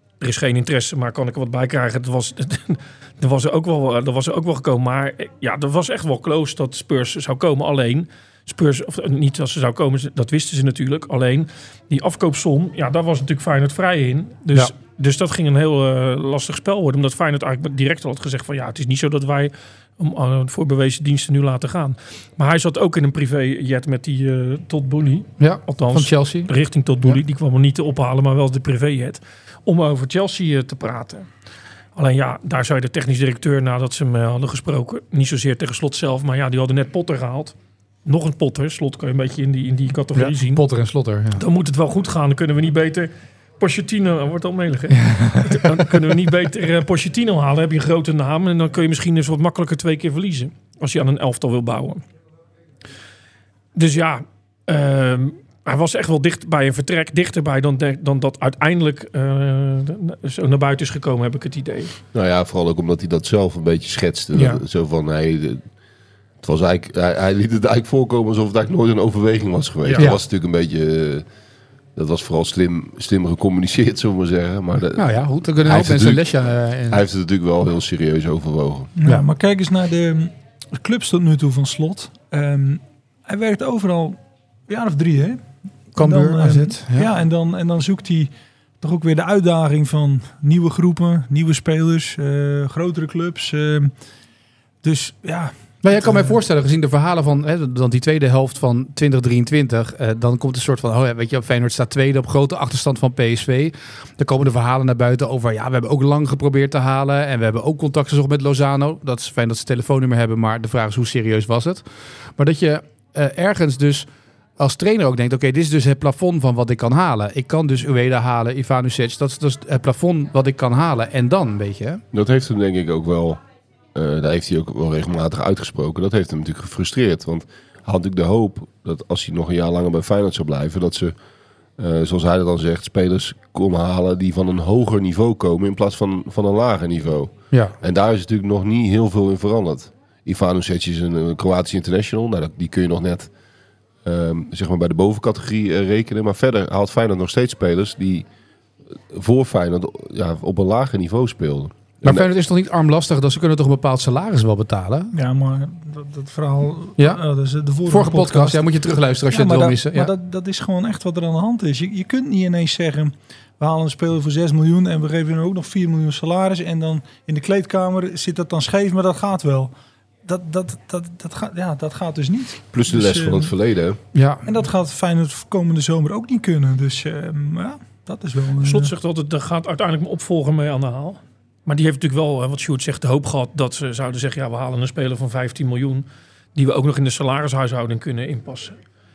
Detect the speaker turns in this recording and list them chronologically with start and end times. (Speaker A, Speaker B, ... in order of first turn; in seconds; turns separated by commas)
Speaker A: 0.2-31.3, Speaker B: 25.4-26.5, Speaker A: 31.9-40.6, Speaker B: 40.1-41.4, Speaker A: 41.4-52.0, Speaker B: 45.0-45.8, Speaker A: 53.7-62.0, Speaker C: 62.1-65.7, Speaker A: 64.3-64.6, Speaker C: 66.4-71.2, Speaker B: 69.9-70.2, Speaker C: 71.9-75.0, Speaker B: 75.0-77.0, Speaker C: 75.6-76.2, Speaker C: 76.9-78.9, Speaker D: 79.0-85.4, Speaker B: 86.0-87.1, Speaker D: 86.0-88.3, Speaker D: 88.8-93.9, Speaker D: 94.8-96.4, Speaker B: 95.8-114.1, Speaker B: 114.6-122.0, Speaker C: 122.1-123.4, Speaker C: 123.9-131.1, Speaker C: 131.8-143.3, Speaker C: 144.0-148.2, Speaker C: 149.1-152.2, Speaker B: 152.0-155.1, Speaker D: 155.1-158.6, Speaker B: 157.8-160.1, Speaker D: 159.3-169.7, Speaker D: 170.2-173.5, Speaker C: 172.7-174.0, Speaker B: 174.1-174.4, Speaker D: 174.4-178.9, Speaker A: 178.6-188.8